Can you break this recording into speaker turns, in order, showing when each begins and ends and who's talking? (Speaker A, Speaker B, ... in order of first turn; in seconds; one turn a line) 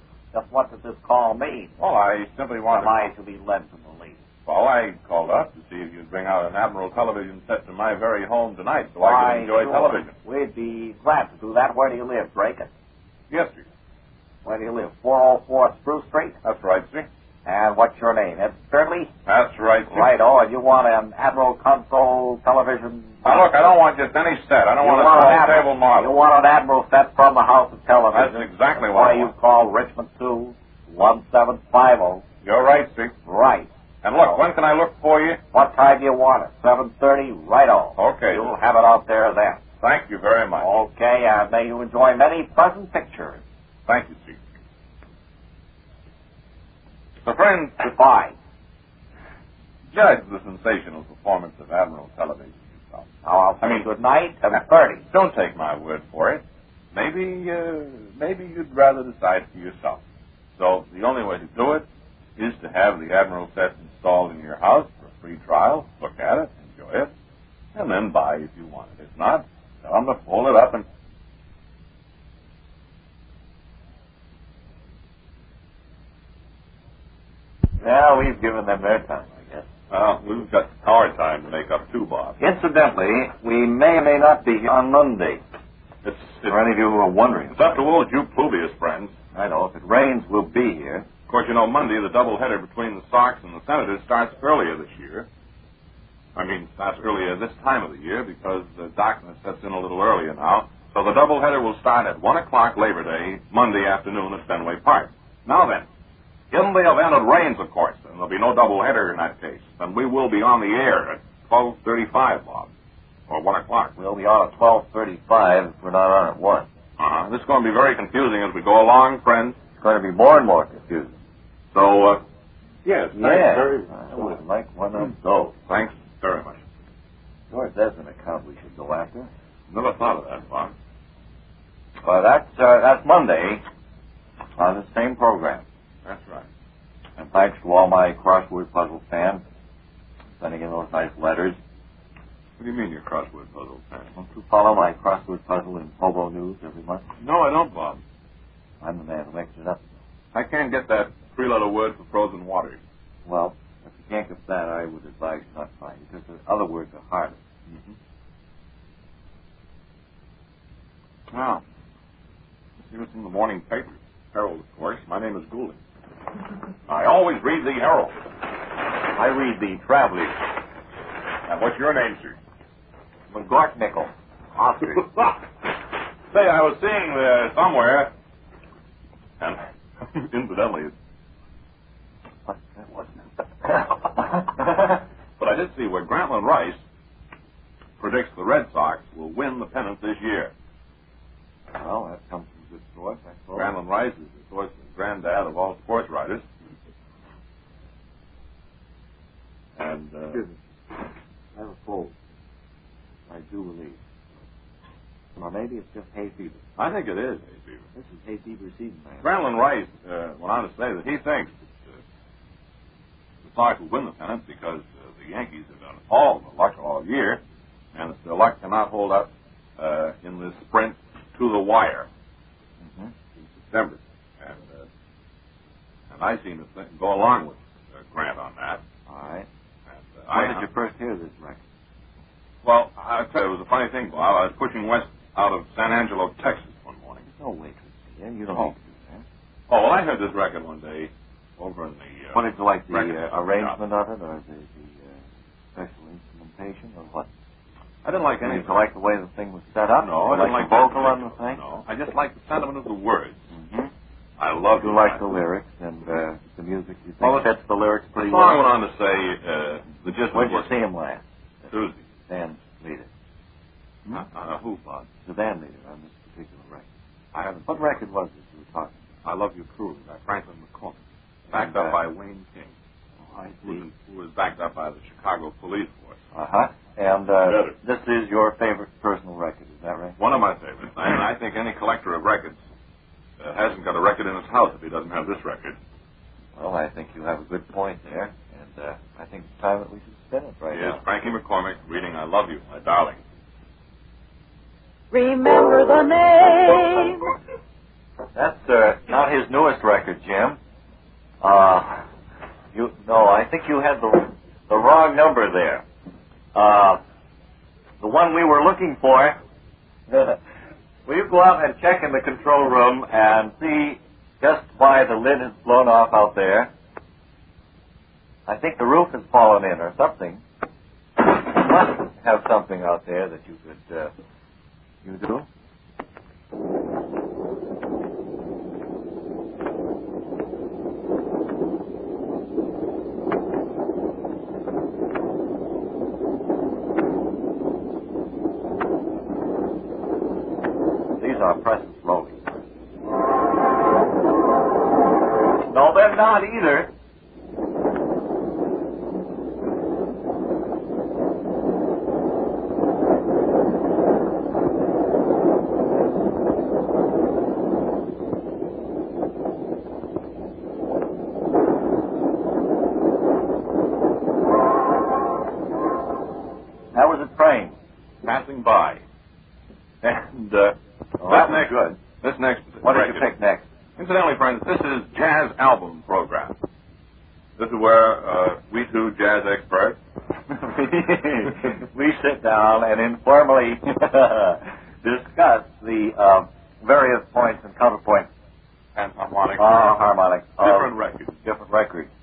Speaker A: 0.3-1.7
Speaker B: 1.8-3.0
Speaker A: 2.7-4.2
Speaker B: 4.5-10.1
Speaker A: 9.0-12.7
Speaker B: 13.3-13.6
Speaker A: 14.4-16.4
Speaker B: 16.4-17.1
Speaker A: 17.4-19.1
Speaker B: 19.3-20.1
Speaker A: 19.9-23.3
Speaker B: 23.2-26.1
Speaker A: 24.8-32.2
Speaker B: 28.1-29.3
Speaker B: 32.4-33.1
Speaker A: 33.2-33.7
Speaker B: 34.0-35.4
Speaker A: 35.5-39.6
Speaker B: 38.0-38.5
Speaker B: 39.8-40.7
Speaker A: 40.6-43.4
Speaker B: 43.9-44.4
Speaker B: 47.2-47.8
Speaker A: 47.8-48.3
Speaker B: 49.9-53.1
Speaker A: 53.2-55.0
Speaker B: 53.6-53.9
Speaker B: 55.1-56.4
Speaker B: 56.9-60.0
Speaker B: 60.6-61.8
Speaker B: 62.4-67.1
Speaker B: 67.7-70.8
Speaker A: 77.8-79.7
Speaker B: 79.9-82.4
Speaker A: 82.4-85.4
Speaker B: 86.0-86.5
Speaker A: 86.5-87.8
Speaker B: 87.5-89.1
Speaker A: 89.3-91.0
Speaker B: 91.3-95.3
Speaker B: 96.3-105.9
Speaker B: 106.5-112.7
Speaker B: 113.3-113.9
Speaker A: 114.0-116.7
Speaker B: 117.0-119.6
Speaker A: 119.8-121.1
Speaker B: 121.7-122.2
Speaker B: 122.8-124.3
Speaker A: 123.1-125.5
Speaker B: 125.7-126.6
Speaker A: 127.5-129.3
Speaker B: 129.7-130.7
Speaker A: 132.0-133.6
Speaker A: 134.6-135.6
Speaker B: 136.0-136.4
Speaker A: 137.2-139.4
Speaker A: 140.4-141.6
Speaker B: 142.6-144.1
Speaker A: 144.2-147.0
Speaker B: 147.2-148.0
Speaker A: 148.8-149.8
Speaker B: 150.3-152.8
Speaker A: 153.2-157.4
Speaker B: 161.3-161.6
Speaker B: 162.9-165.8
Speaker B: 166.9-168.1
Speaker A: 169.1-170.3
Speaker B: 171.5-172.4
Speaker A: 173.3-175.1
Speaker B: 174.9-175.4
Speaker B: 176.3-178.1
Speaker B: 179.4-180.9
Speaker A: 182.5-185.0
Speaker B: 185.4-186.8
Speaker B: 188.0-190.5
Speaker A: 191.7-193.7
Speaker B: 193.6-196.4
Speaker B: 199.8-200.4
Speaker A: 201.6-202.1
Speaker A: 203.3-204.0
Speaker A: 205.4-206.6
Speaker B: 206.8-207.8
Speaker A: 207.9-209.2
Speaker B: 209.2-211.6
Speaker B: 213.4-217.4
Speaker B: 217.9-222.1
Speaker A: 222.8-223.1
Speaker B: 223.6-224.8
Speaker B: 226.1-228.8
Speaker A: 229.1-229.5
Speaker B: 230.1-230.6
Speaker A: 230.3-231.6
Speaker B: 232.6-237.2
Speaker A: 237.3-239.2
Speaker B: 239.7-243.8
Speaker A: 242.3-245.2
Speaker A: 245.7-247.3
Speaker B: 248.0-248.8
Speaker A: 248.4-251.6
Speaker B: 250.0-253.4
Speaker A: 253.5-253.9
Speaker B: 254.4-255.2
Speaker A: 254.8-258.6
Speaker B: 257.2-257.5
Speaker B: 258.2-260.7
Speaker A: 260.3-261.7
Speaker B: 261.7-262.0
Speaker A: 262.2-263.1
Speaker B: 264.1-265.0
Speaker A: 265.1-269.0
Speaker B: 267.3-267.6
Speaker B: 269.2-271.0
Speaker B: 271.5-272.7
Speaker A: 271.5-272.0
Speaker A: 273.3-273.8
Speaker B: 273.6-276.1
Speaker A: 276.3-280.2
Speaker B: 277.5-277.7
Speaker B: 280.2-282.6
Speaker B: 283.4-285.8
Speaker A: 286.6-291.0
Speaker B: 290.7-293.2
Speaker C: 295.1-297.3
Speaker A: 298.3-300.6
Speaker A: 301.4-302.1
Speaker A: 302.7-305.8
Speaker A: 306.5-307.0
Speaker A: 308.0-309.4
Speaker A: 310.1-310.4
Speaker A: 311.1-316.7
Speaker A: 318.5-320.4
Speaker A: 321.2-324.1
Speaker A: 325.0-325.5
Speaker A: 341.2-342.5
Speaker A: 345.7-346.9
Speaker A: 366.9-367.7
Speaker B: 368.2-369.0
Speaker B: 370.0-373.2
Speaker A: 371.2-371.9
Speaker A: 372.8-373.6
Speaker B: 374.0-376.5
Speaker B: 377.6-380.0
Speaker A: 380.5-388.3
Speaker B: 388.9-390.0
Speaker A: 389.6-390.9
Speaker B: 390.6-391.4
Speaker A: 391.4-392.1